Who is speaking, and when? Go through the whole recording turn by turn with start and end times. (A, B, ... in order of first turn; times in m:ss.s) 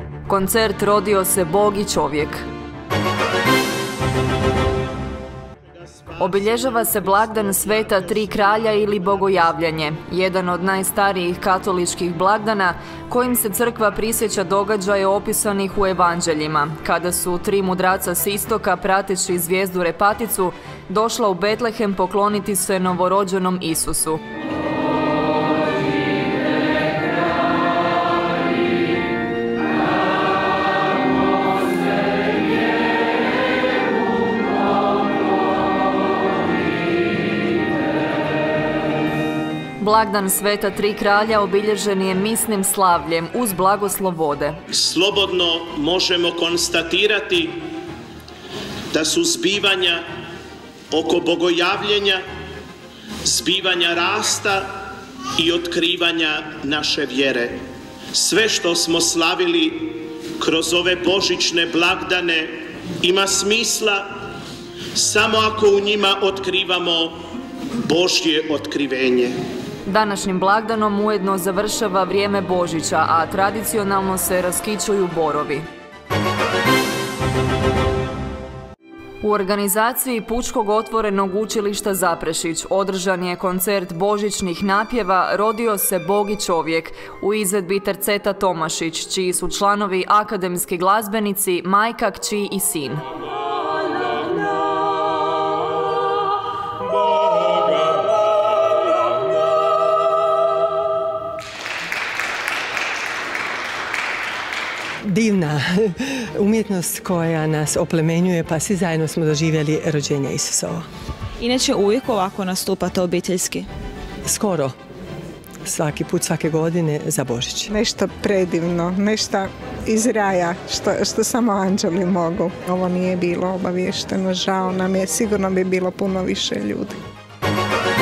0:00.2-0:02.4 A
0:05.7-0:09.3 B
0:06.2-0:24.2 A
0:39.8-0:44.6 A
0:44.7-0:47.7 B
0:48.9-0:50.0 B
0:50.9-0:52.2 B
0:53.2-0:57.6 B
0:58.1-1:04.1 B
1:04.9-1:07.2 B
1:07.8-1:09.4 B
1:09.8-1:15.6 A
1:19.2-1:33.0 A
1:45.1-1:50.8 C
1:51.4-1:53.7 D
1:54.3-1:54.7 C
1:55.6-1:57.7 C
1:57.7-2:06.9 E